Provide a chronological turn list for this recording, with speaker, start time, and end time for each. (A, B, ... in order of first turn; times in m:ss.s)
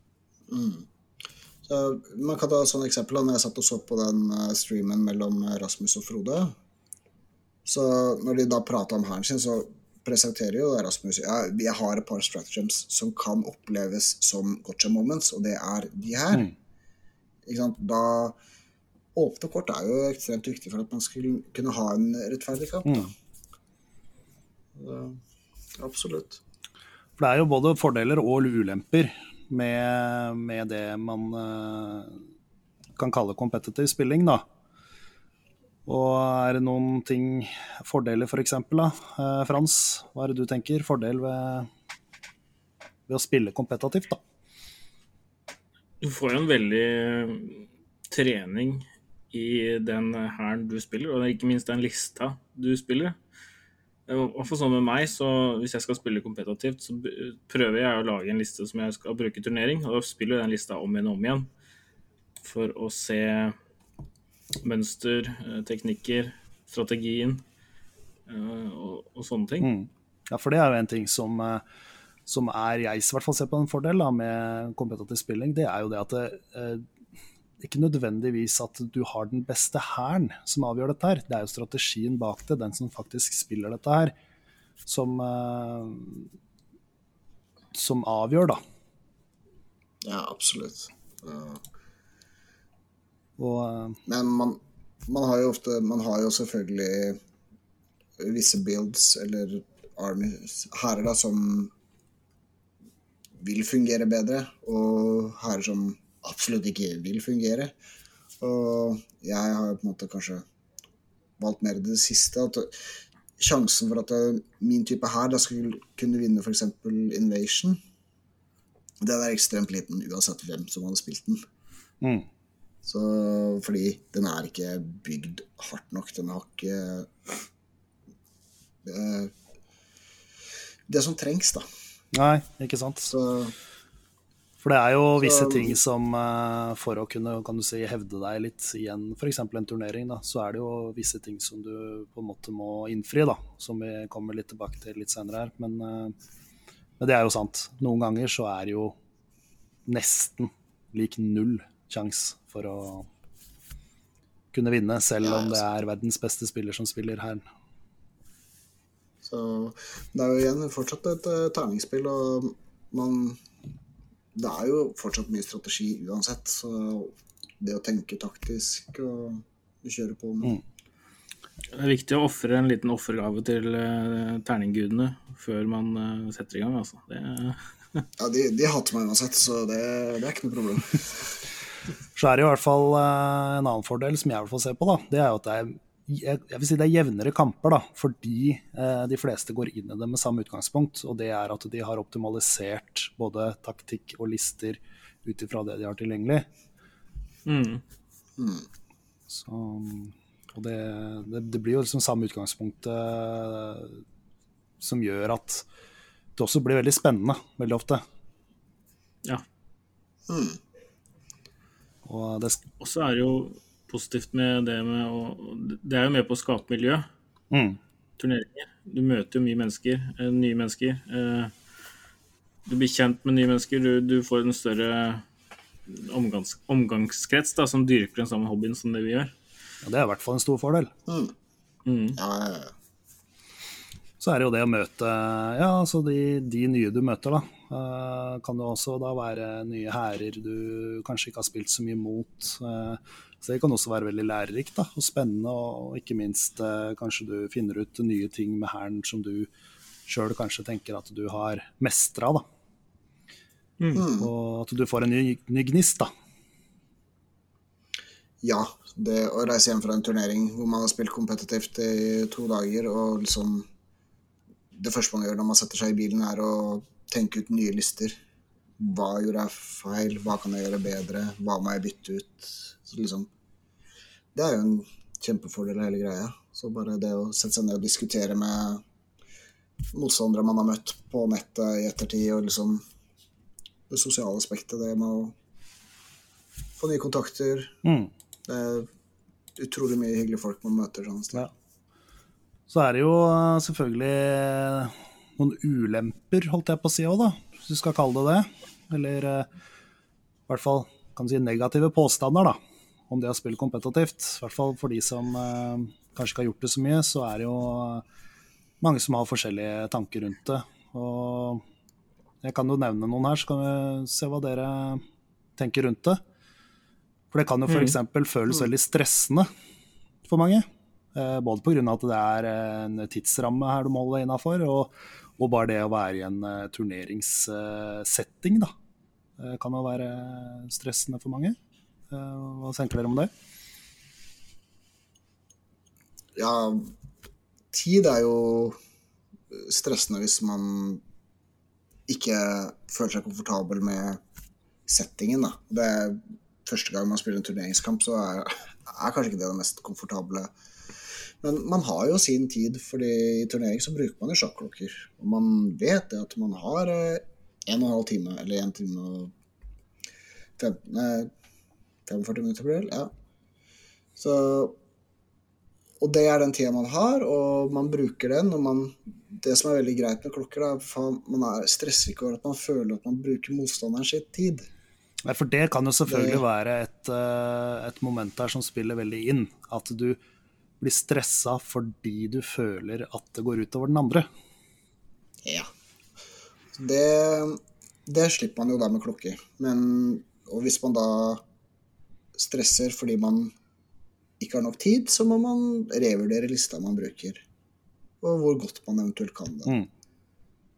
0:00.5-0:00.8 A
0:01.6-0:06.5 A
0:07.6-0:16.5 A
0:17.4-0:18.4 A
0:19.1-0:23.1 A
0:24.8-0:25.2 A
0:25.8-0:26.4 A
0:27.2-0:32.2 B
0:33.0-0:34.4 B
0:35.8-0:41.7 B
0:43.1-0:44.2 B
0:46.0-0:53.2 C
0:54.1-1:01.5 C
1:02.4-1:03.6 C
1:04.6-1:07.4 C
1:08.3-1:09.7 C
1:09.6-1:11.6 B
1:12.2-1:16.8 B
1:17.6-1:24.1 B
1:24.8-1:26.3 B
1:27.7-1:28.6 B
1:30.0-1:31.6 A
1:33.4-1:34.0 B
1:34.1-1:37.2 A
1:38.2-1:41.7 A
1:43.4-1:47.7 A
1:48.4-1:50.4 A
1:51.4-1:52.7 A
1:53.4-1:57.8 A
1:59.0-2:01.4 A
2:02.0-2:02.3 B
2:02.8-2:07.3 A
2:08.8-2:09.3 A
2:10.9-2:11.6 A
2:12.1-2:13.1 B
2:13.1-2:13.5 A
2:14.6-2:26.1 B
2:15.2-2:15.8 A
2:27.0-2:29.0 B
2:29.8-2:33.1 B
2:34.5-2:37.4 B
2:35.2-2:35.6 A
2:39.2-2:43.4 A
2:44.3-2:50.6 A
2:51.7-2:58.0 C
2:58.2-3:01.3 A
3:02.1-3:16.5 B
3:17.4-3:17.8 C
3:18.4-3:18.6 A
3:19.3-3:24.0 B
3:24.8-3:25.6 B
3:26.4-3:28.0 B
3:30.3-3:30.6 A
3:32.0-3:32.6 B
3:32.8-3:37.0 C
3:37.5-3:37.8 B
3:38.2-3:41.5 C
3:42.6-3:45.2 C
3:45.9-3:49.3 C
3:49.8-3:50.9 B
3:51.1-3:51.3 A
3:51.8-3:52.2 C
3:52.2-3:52.7 A
3:54.2-4:09.5 B
4:10.0-4:12.4 B
4:13.9-4:14.3 A
4:14.2-4:16.1 B
4:18.4-4:23.6 A
4:24.7-4:28.2 A
4:28.8-4:33.3 A
4:34.3-4:38.8 A
4:39.9-4:42.8 A
4:43.9-4:45.3 A
4:46.8-4:47.7 A
4:47.8-4:48.1 B
4:48.5-4:48.9 A
4:49.6-4:51.5 A
4:52.7-4:59.5 B
5:00.5-5:02.6 B
5:03.1-5:08.0 B
5:08.8-5:11.6 B
5:12.4-5:15.0 B
5:15.6-5:16.2 B
5:17.3-5:19.5 B
5:17.7-5:17.9 C
5:20.3-5:28.7 B
5:29.4-5:31.6 B
5:32.1-5:33.3 B
5:36.4-5:36.9 A
5:37.7-5:38.8 A
5:39.5-5:41.0 A
5:42.1-5:44.2 A
5:44.9-5:50.5 A
5:51.4-5:59.3 A
6:00.6-6:01.3 A
6:02.0-6:03.1 A
6:04.2-6:04.8 A
6:06.0-6:14.7 A
6:15.2-6:20.2 B
6:16.1-6:16.4 A
6:20.8-6:24.3 B
6:25.4-6:25.7 A
6:26.7-6:31.4 A
6:32.3-6:33.5 A
6:34.4-6:37.4 A
6:38.2-6:39.7 A